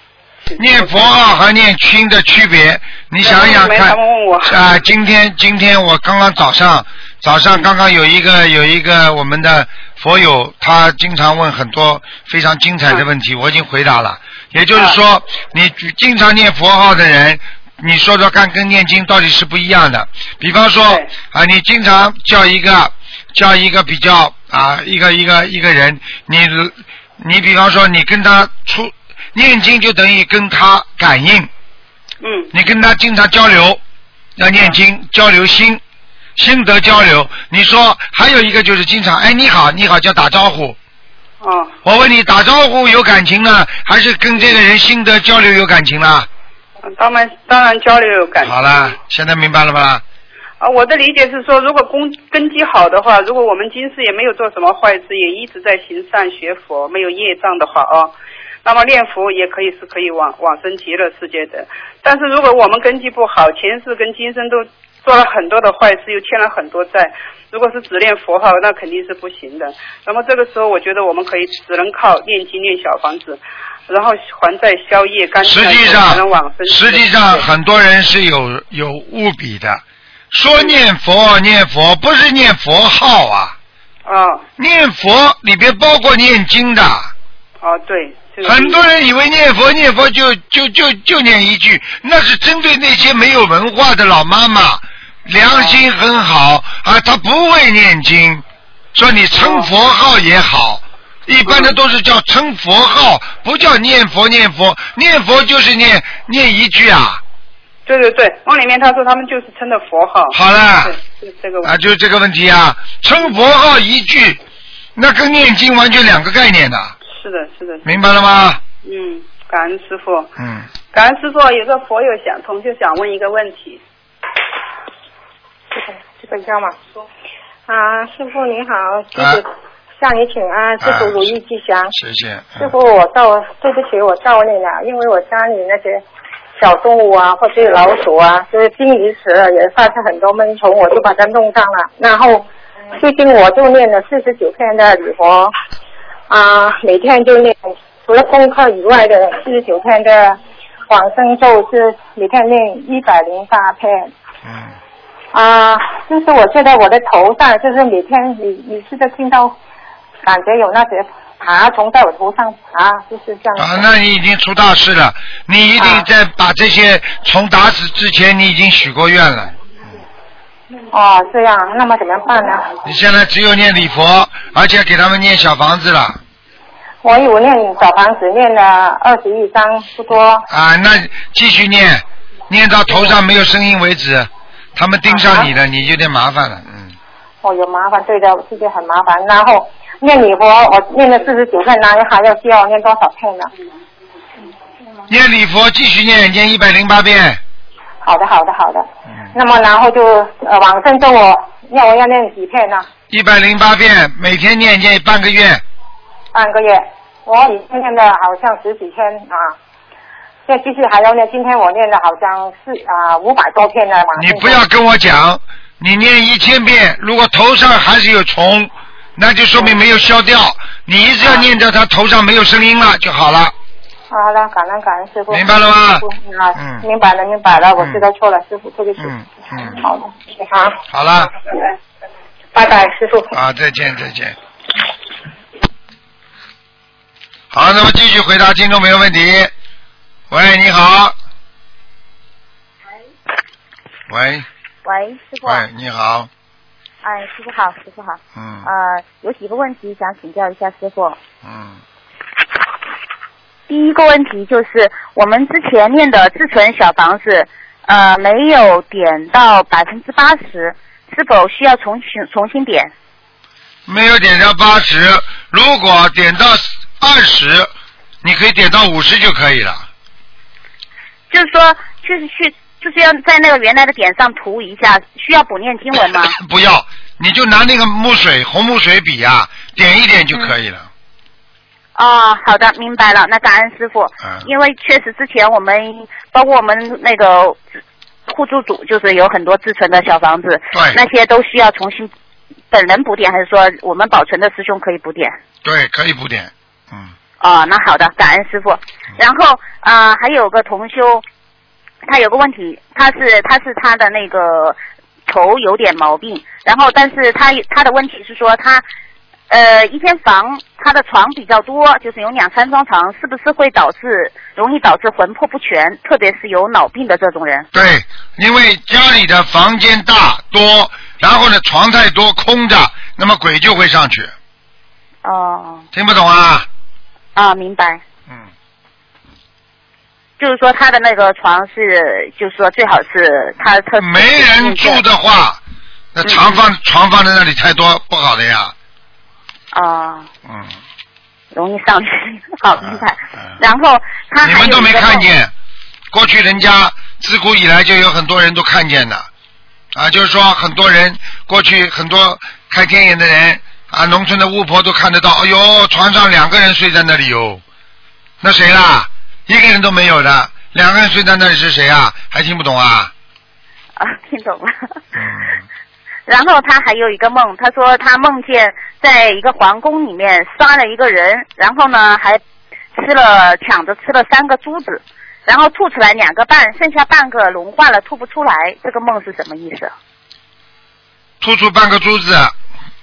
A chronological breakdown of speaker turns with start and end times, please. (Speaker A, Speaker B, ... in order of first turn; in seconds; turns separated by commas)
Speaker A: 0.5-1.1, Speaker B: 0.6-31.5, Speaker A: 3.2-4.6, Speaker A: 32.2-32.5, Speaker B: 32.5-33.8, Speaker B: 34.4-35.8, Speaker B: 36.4-40.8, Speaker A: 41.4-41.7, Speaker B: 41.8-46.3, Speaker A: 46.8-48.9, Speaker B: 48.4-50.0, Speaker A: 50.6-58.1, Speaker A: 58.6-77.5, Speaker B: 75.4-83.5, Speaker A: 84.0-84.4, Speaker B: 84.6-87.1, Speaker A: 87.6-88.8, Speaker B: 88.4-98.4, Speaker A: 95.5-95.8, Speaker B: 98.9-107.2, Speaker A: 99.4-99.7, Speaker A: 101.5-101.8, Speaker A: 107.9-111.7, Speaker B: 110.3-111.0, Speaker B: 111.6-114.4, Speaker B: 115.0-116.9, Speaker A: 117.1-117.8, Speaker B: 117.8-118.6, Speaker A: 118.8-120.3, Speaker B: 120.4-120.7, Speaker A: 120.9-123.8, Speaker C: 125.7-126.8, Speaker C: 127.7-129.5, Speaker B: 129.2-129.4, Speaker C: 130.0-131.9, Speaker B: 130.8-131.2, Speaker B: 131.9-132.7, Speaker C: 132.6-136.0, Speaker C: 136.6-145.5, Speaker C: 146.3-154.1, Speaker B: 154.4-154.7, Speaker C: 155.3-159.5, Speaker C: 160.2-163.8, Speaker B: 163.6-169.6, Speaker C: 165.8-166.0, Speaker C: 170.9-172.7, Speaker B: 172.8-176.2, Speaker C: 177.0-180.4, Speaker B: 180.5-186.9, Speaker C: 185.1-185.5, Speaker C: 187.4-193.5, Speaker B: 195.1-197.4, Speaker C: 198.0-202.8, Speaker B: 203.1-205.6, Speaker C: 206.3-209.6, Speaker C: 210.4-214.6, Speaker B: 214.2-223.5, Speaker C: 224.1-230.8, Speaker B: 225.3-226.8, Speaker B: 227.8-228.1, Speaker B: 229.0-229.8, Speaker B: 230.9-231.3, Speaker C: 232.5-233.3, Speaker B: 233.3-234.4, Speaker B: 237.5-239.5, Speaker B: 240.3-241.1, Speaker B: 244.1-244.5, Speaker D: 244.8-245.6, Speaker B: 245.4-246.3, Speaker D: 247.0-251.2, Speaker B: 248.3-248.7, Speaker B: 251.4-251.8, Speaker D: 253.7-262.9, Speaker B: 263.9-267.7, Speaker B: 268.2-269.9, Speaker D: 271.3-276.4, Speaker B: 276.2-280.9, Speaker D: 281.9-287.6, Speaker D: 288.3-292.1, Speaker B: 290.7-291.0, Speaker D: 292.7-295.4, Speaker B: 295.6-297.1, Speaker D: 297.4-301.2, Speaker D: 302.1-308.8, Speaker D: 309.5-317.7, Speaker B: 317.7-324.3, Speaker D: 325.2-325.9, Speaker B: 325.9-326.7, Speaker D: 327.3-328.0, Speaker D: 330.4-335.0, Speaker B: 334.0-335.6, Speaker B: 336.1-338.7, Speaker D: 336.2-336.6, Speaker D: 339.7-340.3, Speaker B: 340.4-340.7, Speaker D: 341.5-345.3, Speaker B: 342.8-343.6, Speaker B: 344.4-345.5, Speaker B: 346.1-349.3, Speaker B: 349.9-357.6, Speaker B: 358.4-363.1, Speaker D: 364.0-364.7, Speaker B: 365.1-365.6, Speaker D: 366.3-372.4, Speaker D: 372.9-379.9, Speaker B: 381.4-382.5